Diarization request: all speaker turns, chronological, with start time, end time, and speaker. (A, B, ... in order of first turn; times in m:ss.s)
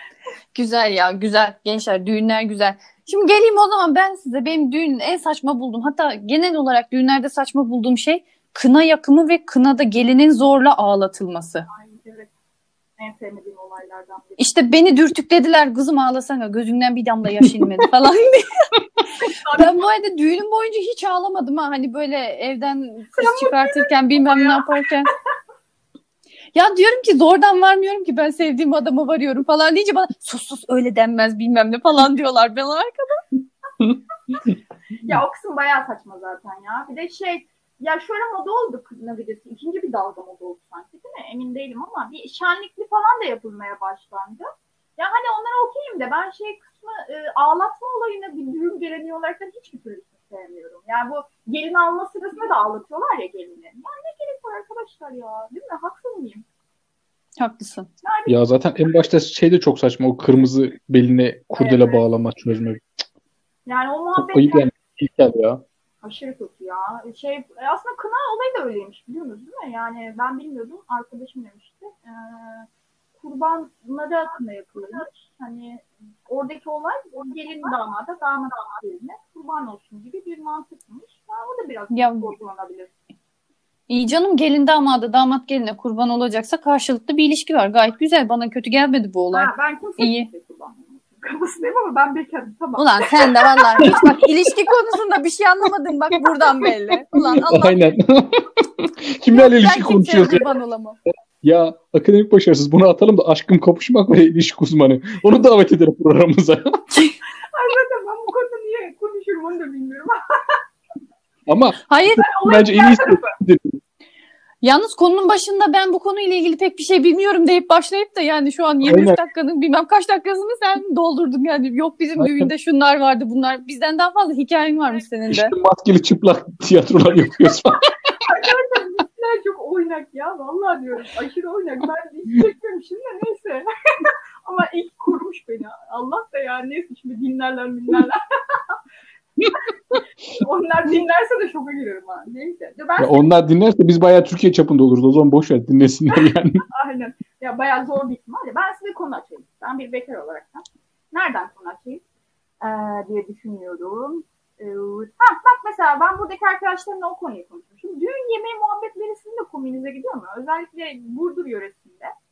0:00.5-0:11.7 A
0:11.7-0:12.3 B
0:13.0-0:14.6 B
0:14.4-0:18.7 A
0:19.2-0:19.7 B
0:19.5-0:25.1 A
0:23.2-0:24.6 B
0:26.5-0:33.2 A
0:35.0-0:56.4 B
0:57.4-0:57.9 A
0:58.0-0:58.4 B
0:58.3-1:02.8 C
1:01.6-1:02.0 B
1:03.6-1:04.7 B
1:04.2-1:05.6 C
1:06.0-1:22.9 B
1:21.9-1:22.3 A
1:23.9-1:30.3 A
1:29.3-1:34.0 B
1:32.8-1:37.8 A
1:37.2-1:40.4 C
1:39.3-1:41.0 A
1:41.4-1:46.8 C
1:47.5-1:50.6 B
1:51.5-1:51.8 C
1:51.9-1:52.4 A
1:52.2-1:53.3 B
1:52.4-1:53.8 C
1:54.6-2:05.5 A
1:58.8-1:59.2 C
2:02.2-2:02.5 C
2:05.3-2:07.9 C
2:08.2-2:18.8 B
2:19.4-2:19.7 B
2:20.3-2:23.2 B
2:23.0-2:26.6 C
2:26.7-2:32.0 B
2:32.6-2:42.1 B